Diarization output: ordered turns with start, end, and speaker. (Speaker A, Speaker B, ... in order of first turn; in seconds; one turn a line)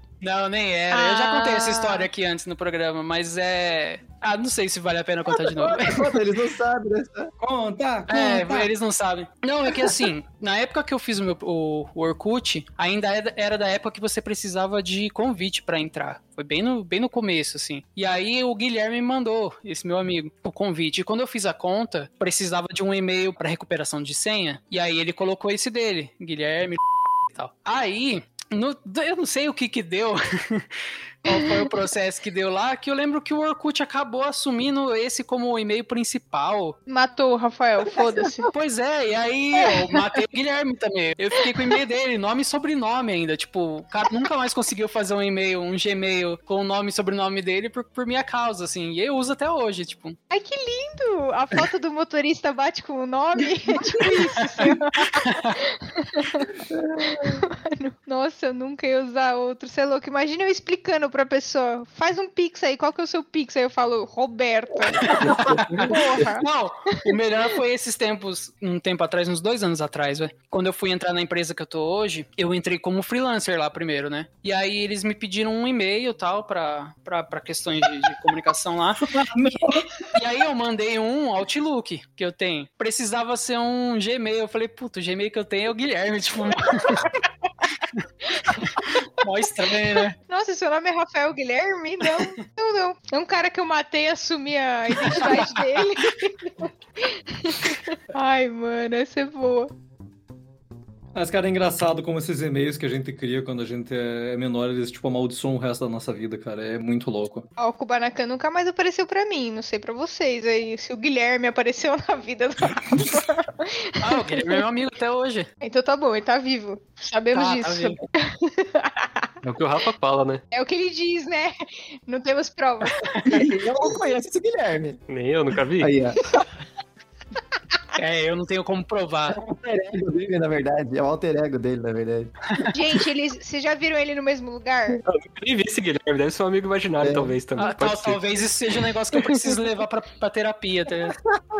Speaker A: 0.2-6.1
Speaker B: 0.9-2.1
Speaker C: 5.7-7.3
Speaker D: 7.4-8.3
Speaker A: 8.1-26.8
Speaker A: 27.3-36.8
Speaker B: 36.9-38.5
Speaker A: 38.5-50.2
Speaker B: 50.3-56.5
Speaker A: 54.6-55.5
Speaker C: 56.7-57.4
Speaker B: 57.4-66.4
Speaker A: 65.0-87.2
Speaker C: 65.5-65.8
Speaker D: 79.2-79.9
Speaker A: 88.5-90.2
Speaker B: 90.3-99.7
Speaker A: 95.0-95.5
Speaker D: 101.1-107.5
Speaker B: 107.6-114.6
Speaker A: 114.0-115.5
Speaker B: 115.6-119.3
Speaker A: 117.3-118.0
Speaker E: 119.4-120.4
Speaker B: 120.5-121.5
Speaker B: 122.1-122.9
Speaker C: 123.3-125.0
Speaker E: 125.1-125.9
Speaker C: 125.8-126.2
Speaker A: 128.0-129.4
Speaker C: 129.3-132.3
Speaker B: 132.7-135.0
Speaker E: 135.0-138.2
Speaker C: 137.0-137.4
Speaker A: 137.6-141.2